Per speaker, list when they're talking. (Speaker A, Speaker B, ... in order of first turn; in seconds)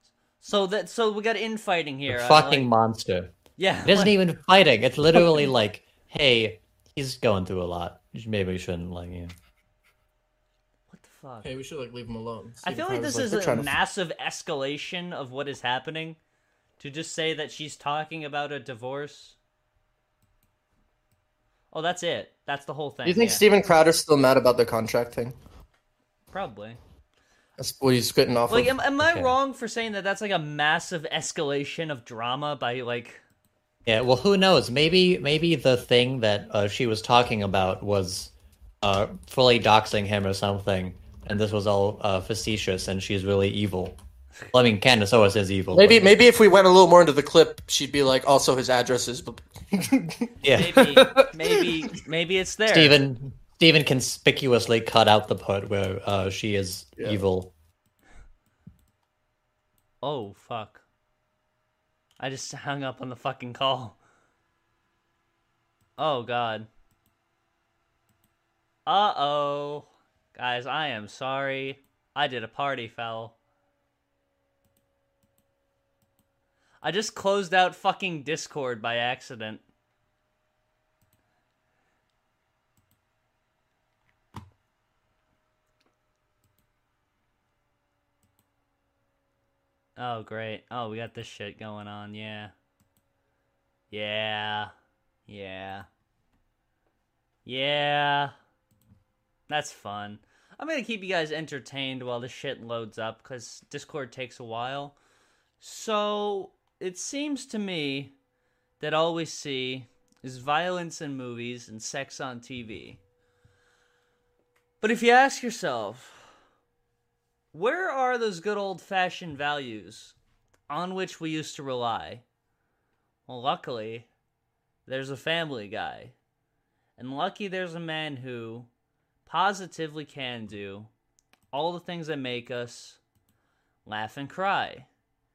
Speaker A: 0.4-2.7, 3.6-4.1, 10.9-11.5, 12.6-16.2, 16.8-19.4, 21.7-23.4, 26.3-26.8, 28.5-33.2, 50.5-53.0, 60.0-60.8, 62.2-64.0, 66.0-66.7, 68.8-73.3, 76.8-79.6, 90.0-92.5, 93.9-94.7, 95.3-95.9, 97.5-98.3, 99.5-105.0, 105.6-108.1, 108.8-113.0, 114.8-116.3, 117.5-120.1, 120.7-122.2, 123.3-124.1, 124.8-126.1, 127.0-128.7, 129.2-130.9, 131.5-133.0, 133.8-134.9
Speaker B: 2.1-3.3, 3.9-9.3, 29.0-29.3, 33.9-38.3, 38.8-44.0, 44.5-46.1, 50.4-50.9, 52.7-57.5
Speaker C: 11.4-13.7, 23.0-25.4, 27.6-28.7, 45.7-50.3